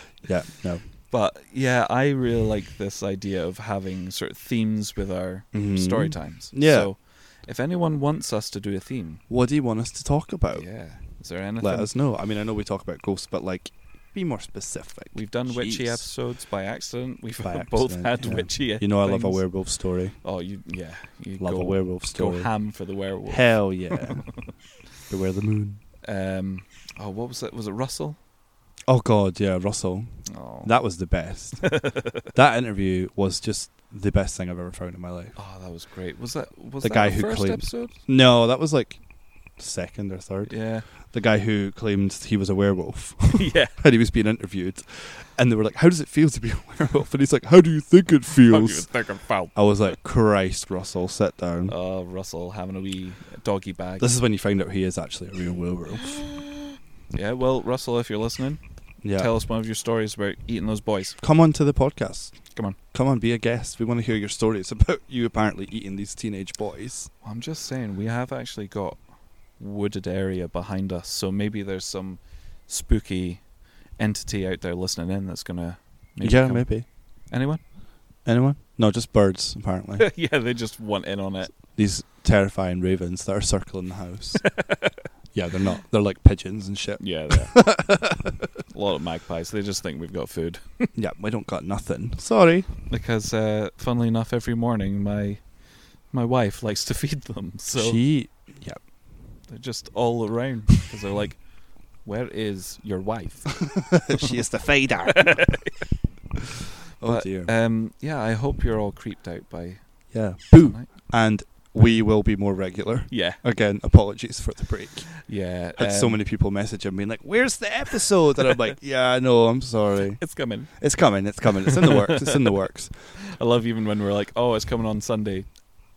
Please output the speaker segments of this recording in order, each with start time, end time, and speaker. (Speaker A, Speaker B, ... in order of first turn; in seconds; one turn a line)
Speaker A: 0.2-0.8
Speaker B: 1.1-9.2
Speaker A: 5.5-6.9
Speaker A: 9.3-10.7
Speaker B: 10.5-11.9
Speaker A: 11.6-16.1
Speaker B: 15.1-19.7
Speaker A: 17.4-20.2
Speaker B: 20.2-24.2
Speaker A: 21.4-22.5
Speaker A: 23.3-24.3
Speaker A: 25.1-25.8
Speaker B: 26.0-28.2
Speaker A: 28.9-35.4
Speaker B: 30.3-30.7
Speaker B: 31.6-32.3
Speaker B: 35.4-38.0
Speaker A: 36.8-39.0
Speaker A: 39.6-40.6
Speaker B: 40.5-40.9
Speaker A: 41.1-48.9
Speaker B: 43.3-43.8
Speaker B: 48.5-49.5
Speaker A: 49.5-51.7
Speaker B: 51.7-54.1
Speaker A: 54.0-56.1
Speaker B: 56.0-58.6
Speaker A: 59.0-59.3
Speaker B: 59.1-61.2
Speaker A: 61.2-62.4
Speaker A: 62.9-67.1
Speaker B: 67.2-69.0
Speaker B: 69.6-73.5
Speaker B: 74.0-77.6
Speaker A: 76.2-76.9
Speaker A: 78.2-80.1
Speaker B: 80.0-81.5
Speaker A: 81.7-84.5
Speaker B: 84.4-85.0
Speaker A: 85.3-88.5
Speaker B: 87.0-87.6
Speaker B: 88.7-90.9
Speaker A: 90.9-92.7
Speaker B: 92.9-95.4
Speaker B: 96.1-98.0
Speaker A: 97.7-98.8
Speaker B: 99.5-104.3
Speaker A: 103.7-105.7
Speaker B: 105.1-105.8
Speaker A: 107.0-107.5
Speaker B: 107.0-110.9
Speaker A: 110.1-115.2
Speaker B: 113.1-113.4
Speaker B: 115.2-116.2
Speaker A: 115.8-122.9
Speaker B: 120.2-120.8
Speaker B: 121.7-122.5
Speaker B: 123.3-125.5